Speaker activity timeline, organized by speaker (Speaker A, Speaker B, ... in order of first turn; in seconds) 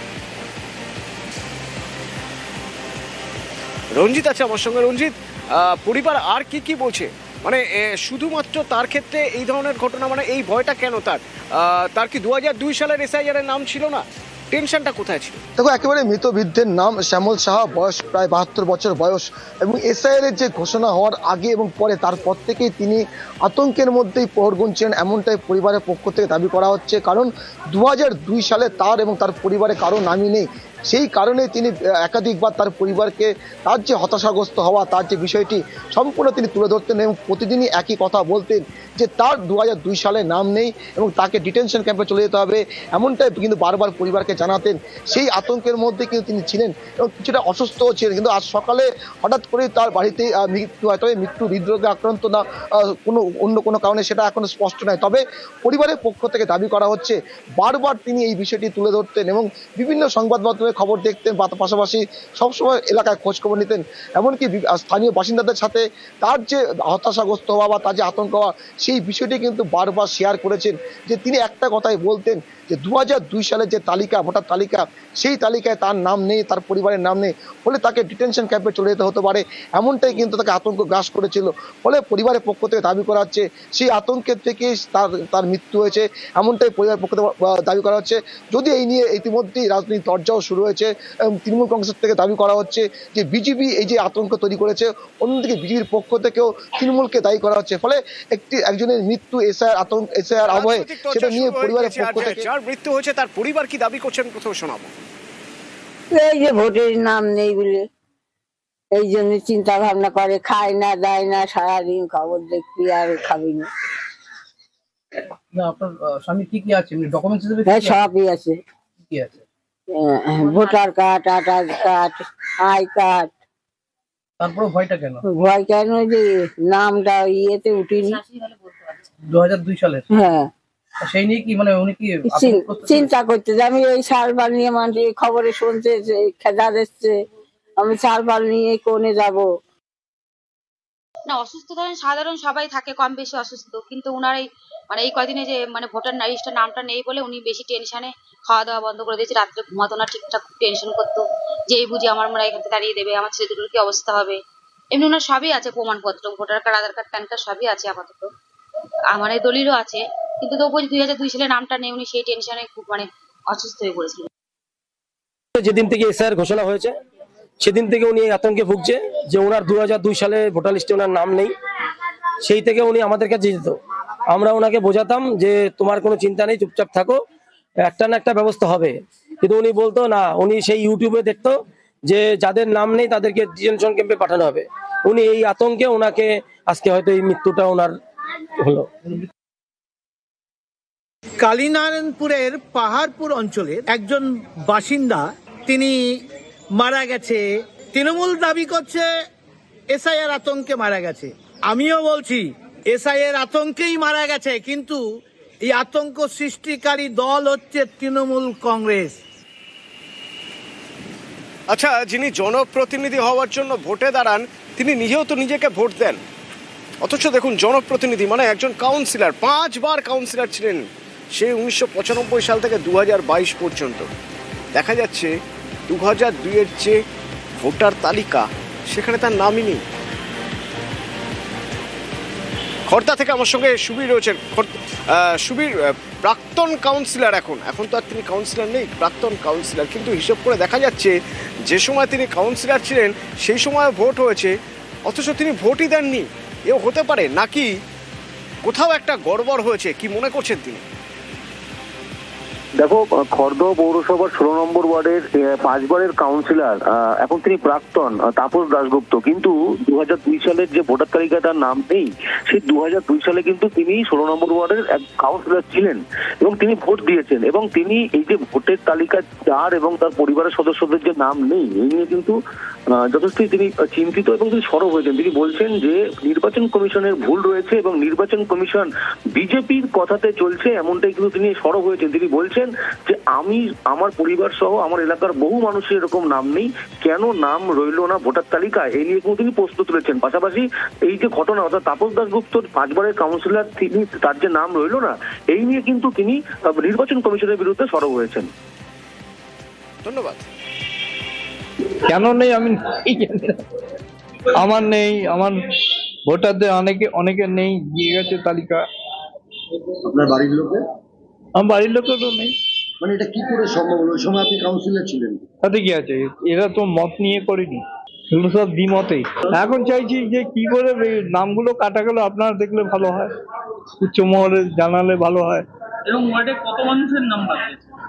Speaker A: 3.9-15.4, 100.4-104.9, 211.7-216.2, 217.0-224.1, 224.7-225.3, 225.9-227.0, 227.6-229.8, 232.9-244.5, 245.0-247.7, 248.6-250.8, 300.0-300.5
Speaker B: 15.6-90.9, 91.4-102.5
Speaker C: 106.1-107.8, 108.9-113.7, 117.7-118.6, 119.9-123.3, 125.3-128.2, 130.1-130.5, 132.2-137.2, 137.8-139.5
Speaker D: 115.5-118.1, 119.0-119.4, 124.4-125.2, 129.3-130.1, 131.0-133.1
Speaker E: 141.3-154.4, 154.9-158.3, 159.1-164.3
Speaker F: 165.6-166.9, 167.6-171.5, 172.4-173.8, 174.3-177.2, 177.8-188.0, 188.6-188.9
Speaker G: 191.4-196.2, 196.7-199.1, 199.9-205.1, 205.6-209.2
Speaker H: 252.8-272.4, 272.9-298.5
Speaker I: 302.1-303.6, 304.6-305.6, 306.3-308.8, 311.6-312.5, 315.6-317.8, 318.3-323.3, 324.0-325.6
Speaker J: 310.1-310.8, 313.0-315.4